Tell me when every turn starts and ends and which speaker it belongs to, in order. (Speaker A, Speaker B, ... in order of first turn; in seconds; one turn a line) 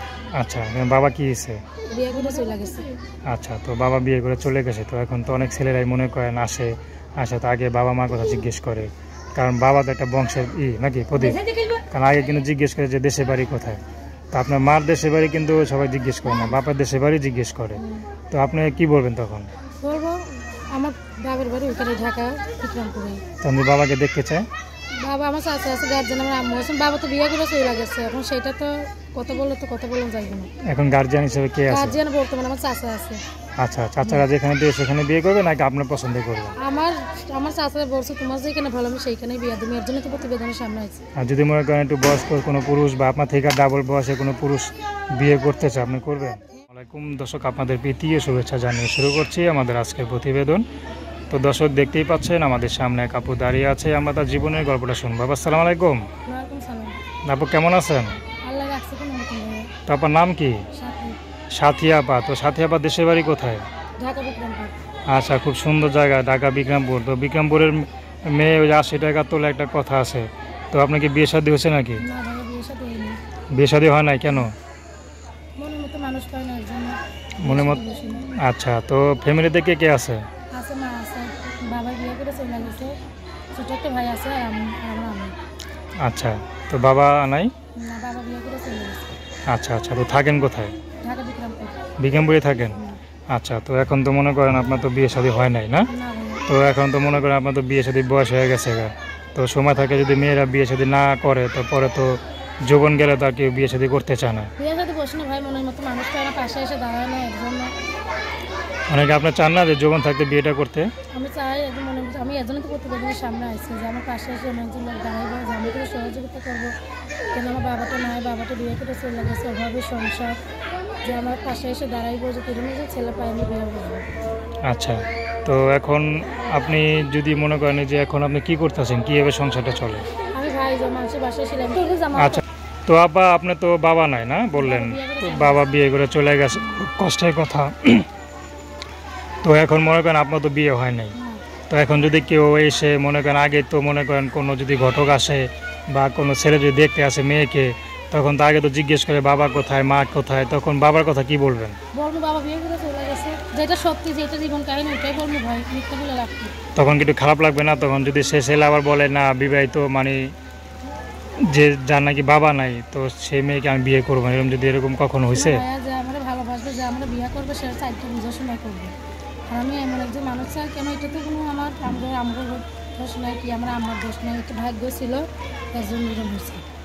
Speaker A: 0.4-1.6
Speaker B: 1.9-2.9
Speaker A: 3.3-13.8
Speaker B: 11.2-11.4
Speaker A: 14.3-17.8
Speaker B: 16.3-16.6
Speaker B: 17.8-18.0
Speaker A: 18.3-19.5
Speaker B: 19.8-23.2
Speaker A: 23.4-24.5
Speaker B: 25.0-30.5
Speaker A: 30.7-32.0
Speaker B: 31.7-33.2
Speaker A: 33.6-36.6
Speaker B: 36.6-41.0
Speaker A: 41.1-50.6
Speaker A: 51.3-56.1
Speaker B: 56.2-57.0
Speaker A: 57.2-58.2
Speaker B: 58.4-59.7
Speaker A: 59.9-60.6
Speaker B: 60.7-61.2
Speaker A: 61.5-63.6
Speaker B: 64.0-64.8
Speaker A: 65.1-72.0
Speaker B: 72.0-73.2
Speaker A: 73.5-74.5
Speaker B: 75.6-78.3
Speaker A: 77.4-77.8
Speaker A: 78.3-80.2
Speaker B: 80.5-83.0
Speaker B: 83.5-85.4
Speaker A: 86.0-87.5
Speaker B: 87.8-89.1
Speaker A: 89.5-90.8
Speaker B: 91.0-91.8
Speaker A: 92.0-95.9
Speaker B: 95.9-96.5
Speaker A: 96.5-104.5
Speaker B: 104.6-107.8
Speaker A: 108.9-110.9
Speaker B: 111.1-116.7
Speaker B: 117.3-120.4
Speaker B: 121.0-124.1
Speaker A: 124.7-130.1
Speaker B: 130.3-132.4
Speaker A: 132.2-138.1
Speaker B: 134.5-135.6
Speaker A: 139.4-141.2
Speaker B: 141.1-141.4
Speaker A: 141.7-151.8
Speaker B: 151.9-156.5
Speaker A: 156.8-160.3
Speaker A: 161.4-165.6
Speaker B: 165.3-168.9
Speaker B: 169.5-176.6